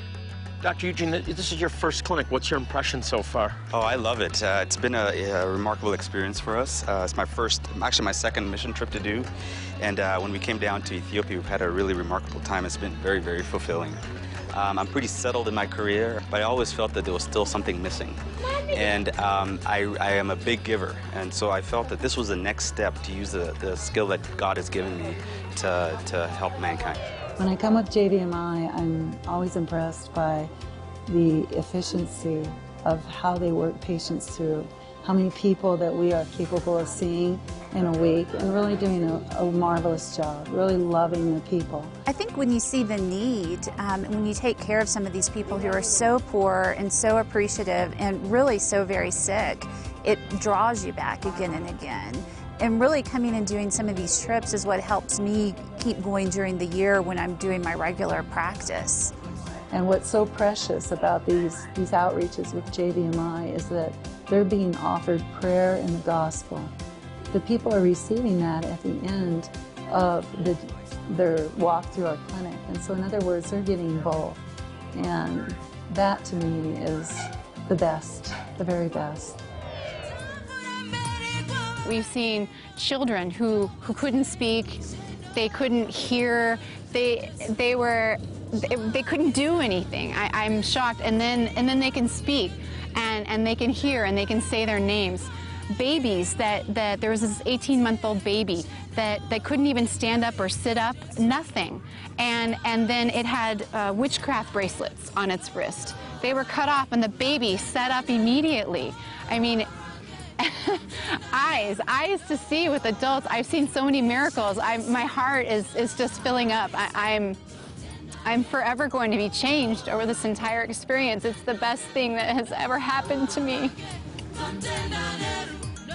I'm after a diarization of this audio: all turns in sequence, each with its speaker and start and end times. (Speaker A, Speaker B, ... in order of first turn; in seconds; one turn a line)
Speaker A: 0.6-3.6
Speaker B: 3.7-9.3
Speaker B: 9.8-14.0
Speaker B: 14.5-18.2
Speaker B: 18.7-27.1
Speaker C: 27.4-30.5
Speaker C: 31.1-42.0
Speaker D: 42.1-59.1
Speaker C: 59.7-66.7
Speaker C: 67.3-74.4
Speaker C: 74.9-79.4
Speaker E: 81.8-84.8
Speaker E: 85.3-109.7
Speaker E: 110.4-117.4
Speaker E: 118.2-123.8